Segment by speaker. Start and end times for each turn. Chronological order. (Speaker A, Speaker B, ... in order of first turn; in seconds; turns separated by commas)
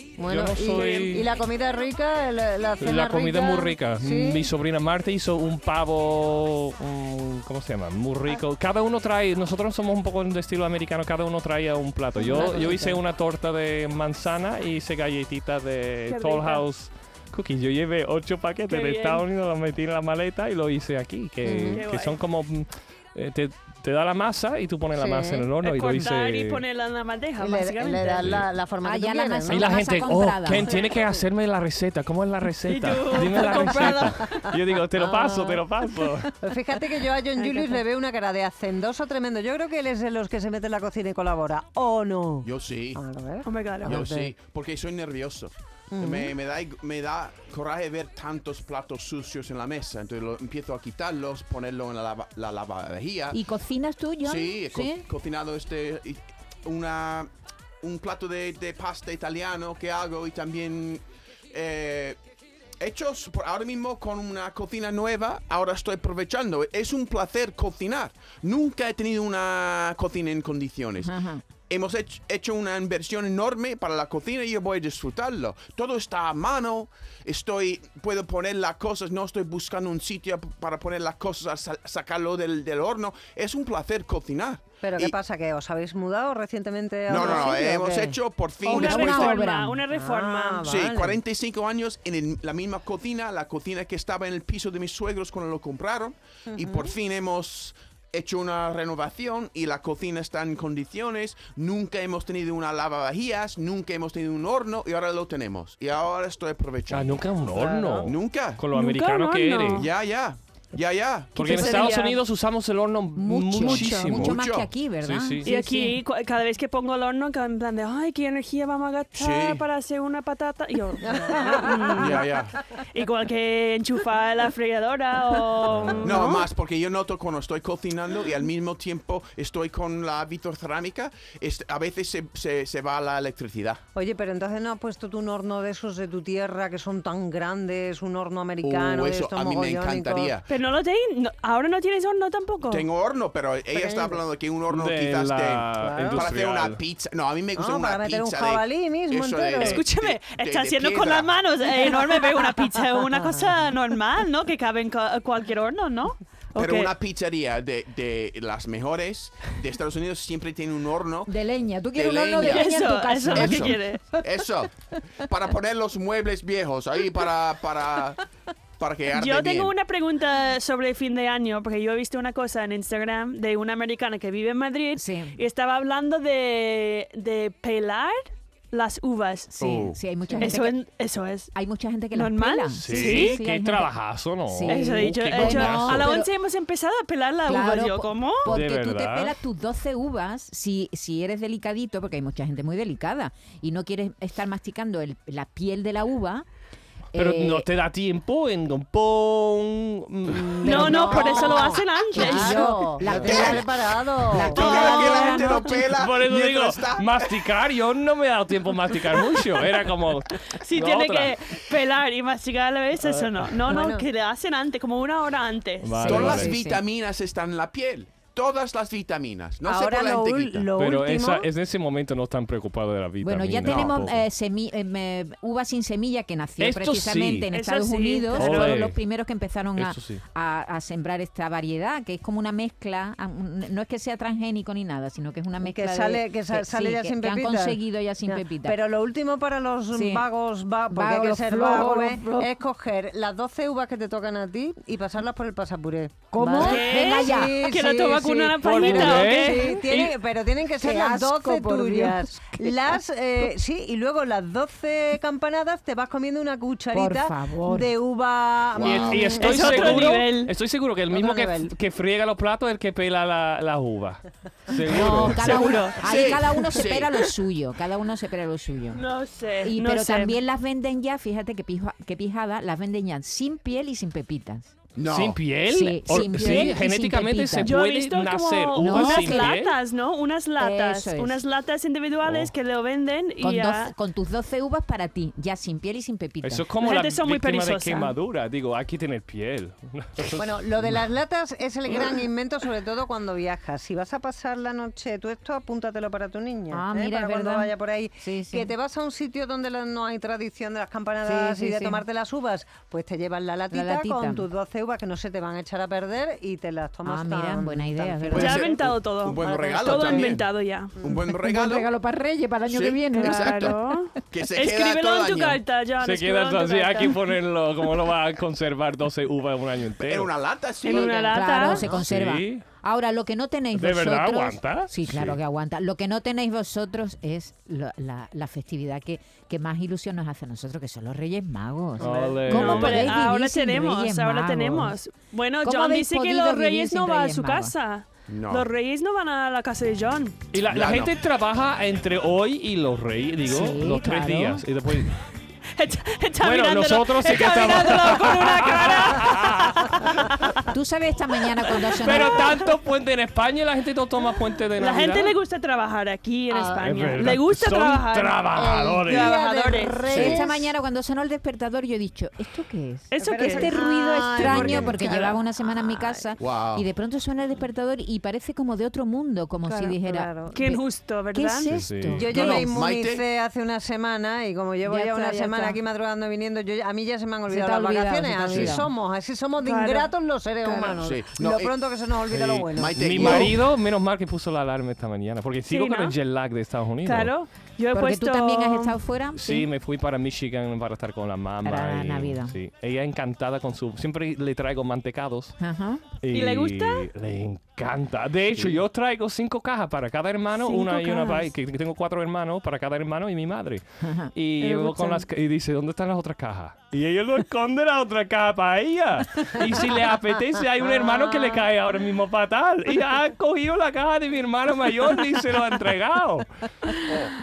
Speaker A: 0.2-4.5, Speaker B: 0.3-1.3, Speaker C: 0.7-1.1, Speaker B: 2.8-26.6, Speaker A: 12.2-13.0, Speaker C: 16.1-16.6, Speaker C: 18.7-19.2, Speaker A: 21.4-21.8, Speaker C: 21.7-22.2, Speaker A: 24.9-25.5, Speaker C: 25.6-28.3, Speaker A: 27.4-29.8, Speaker B: 28.2-28.4, Speaker D: 28.8-30.7, Speaker B: 29.5-36.3, Speaker C: 32.6-34.5, Speaker A: 33.3-35.6, Speaker A: 36.4-44.3, Speaker E: 42.4-43.0, Speaker C: 43.4-44.0, Speaker E: 43.8-53.4, Speaker A: 45.9-46.3, Speaker D: 53.3-55.0, Speaker E: 54.2-57.3, Speaker E: 57.8-62.2, Speaker E: 62.8-85.1, Speaker D: 71.0-71.4, Speaker A: 84.8-88.2, Speaker E: 87.1-89.4, Speaker D: 88.6-89.8, Speaker C: 88.6-90.7, Speaker A: 89.9-91.2, Speaker E: 90.6-107.3, Speaker A: 96.5-96.9, Speaker B: 106.9-109.9, Speaker A: 107.5-108.1, Speaker E: 108.0-108.6, Speaker C: 108.7-109.9, Speaker E: 109.7-111.9, Speaker B: 111.3-114.4, Speaker C: 111.4-112.2, Speaker D: 113.2-116.0, Speaker E: 113.7-114.7, Speaker B: 115.0-115.5, Speaker C: 115.4-122.3, Speaker E: 119.1-119.6, Speaker A: 121.0-122.0, Speaker E: 121.9-122.5, Speaker C: 122.9-126.5, Speaker B: 125.7-126.1, Speaker E: 126.0-133.8, Speaker A: 133.9-140.3, Speaker E: 138.6-140.5, Speaker C: 140.5-142.8, Speaker E: 142.7-151.4, Speaker A: 143.7-144.2, Speaker B: 144.7-146.8, Speaker A: 145.8-146.3, Speaker A: 147.5-149.8, Speaker C: 149.6-156.9, Speaker A: 153.1-153.4, Speaker E: 156.5-161.3, Speaker D: 161.3-164.2, Speaker E: 161.9-162.7, Speaker C: 162.4-164.1, Speaker E: 163.2-168.2, Speaker E: 168.8-169.7, Speaker C: 169.1-179.6, Speaker D: 174.9-175.4, Speaker D: 179.5-180.8, Speaker C: 180.4-181.5, Speaker D: 181.5-183.9, Speaker C: 182.1-183.4, Speaker B: 182.8-186.2, Speaker D: 184.4-186.3, Speaker C: 184.7-188.5, Speaker D: 187.4-196.4, Speaker B: 188.5-189.3, Speaker D: 197.1-197.7, Speaker B: 197.1-201.2, Speaker A: 200.4-205.0, Speaker C: 200.6-202.8, Speaker D: 200.7-201.5, Speaker D: 202.1-203.7, Speaker E: 203.1-203.7, Speaker D: 204.3-205.9, Speaker E: 204.4-207.3, Speaker C: 204.6-205.6, Speaker B: 205.9-211.4, Speaker C: 210.5-216.1, Speaker B: 213.0-213.6, Speaker A: 213.7-214.1, Speaker B: 215.8-216.5, Speaker D: 216.0-216.8, Speaker E: 216.0-220.7, Speaker A: 219.6-221.5, Speaker B: 220.8-224.2, Speaker D: 223.2-238.8, Speaker E: 223.6-224.0, Speaker B: 226.6-227.5, Speaker C: 227.5-228.7, Speaker B: 228.3-229.0, Speaker B: 229.8-230.2, Speaker A: 235.6-260.2, Speaker D: 239.9-240.2, Speaker D: 240.9-242.5, Speaker D: 246.3-247.7, Speaker C: 246.6-249.7, Speaker B: 248.6-250.1, Speaker D: 248.9-249.8, Speaker D: 250.8-252.8, Speaker D: 256.9-257.9, Speaker E: 258.7-259.4, Speaker B: 258.8-265.9, Speaker C: 259.4-260.5, Speaker A: 261.1-261.7, Speaker D: 264.9-269.0, Speaker E: 265.0-267.1, Speaker C: 265.5-266.0, Speaker C: 268.9-270.4, Speaker D: 269.6-274.8, Speaker E: 274.9-275.4, Speaker B: 275.1-279.8, Speaker D: 275.7-277.7, Speaker C: 276.3-276.7, Speaker C: 277.6-283.9, Speaker D: 278.8-279.6, Speaker D: 280.6-281.4, Speaker B: 282.2-282.5, Speaker D: 283.4-286.7, Speaker B: 286.4-291.0, Speaker C: 286.8-288.1, Speaker A: 290.4-308.8, Speaker D: 296.7-298.7, Speaker D: 301.2-302.0, Speaker D: 303.7-304.5, Speaker D: 307.0-308.6, Speaker C: 308.3-311.0, Speaker E: 308.3-311.9, Speaker A: 309.4-310.3, Speaker D: 311.0-313.8, Speaker E: 312.7-315.6, Speaker C: 313.2-317.3, Speaker B: 316.0-320.3, Speaker E: 320.0-321.7, Speaker C: 320.8-321.9, Speaker D: 320.9-335.0, Speaker B: 321.8-322.6, Speaker B: 323.7-325.4, Speaker B: 332.0-333.2, Speaker C: 332.4-340.4, Speaker D: 335.6-337.7, Speaker E: 338.3-338.7, Speaker B: 340.5-345.2, Speaker E: 340.6-341.1, Speaker D: 343.4-344.6, Speaker C: 345.7-350.6, Speaker B: 346.4-350.3, Speaker D: 350.7-352.7, Speaker B: 351.9-355.4, Speaker C: 354.8-360.4, Speaker A: 356.5-357.0, Speaker B: 356.8-359.4, Speaker A: 358.5-360.7, Speaker D: 360.1-372.7, Speaker C: 363.1-363.8, Speaker A: 363.2-366.2, Speaker E: 366.4-366.9, Speaker A: 369.6-370.6, Speaker C: 370.5-371.8, Speaker B: 371.7-372.6, Speaker A: 372.1-383.5, Speaker E: 372.2-373.2, Speaker D: 374.9-375.8, Speaker D: 377.5-378.9, Speaker C: 379.6-380.1, Speaker C: 380.6-381.0, Speaker E: 381.0-381.7, Speaker B: 382.3-387.3, Speaker E: 382.7-383.6, Speaker C: 385.7-386.1, Speaker C: 387.0-389.0, Speaker D: 387.9-389.7, Speaker B: 389.3-395.6, Speaker D: 391.6-392.6, Speaker D: 395.6-396.1, Speaker B: 396.2-416.5, Speaker C: 396.3-397.1, Speaker C: 400.6-401.4, Speaker D: 404.0-405.2, Speaker A: 411.0-411.3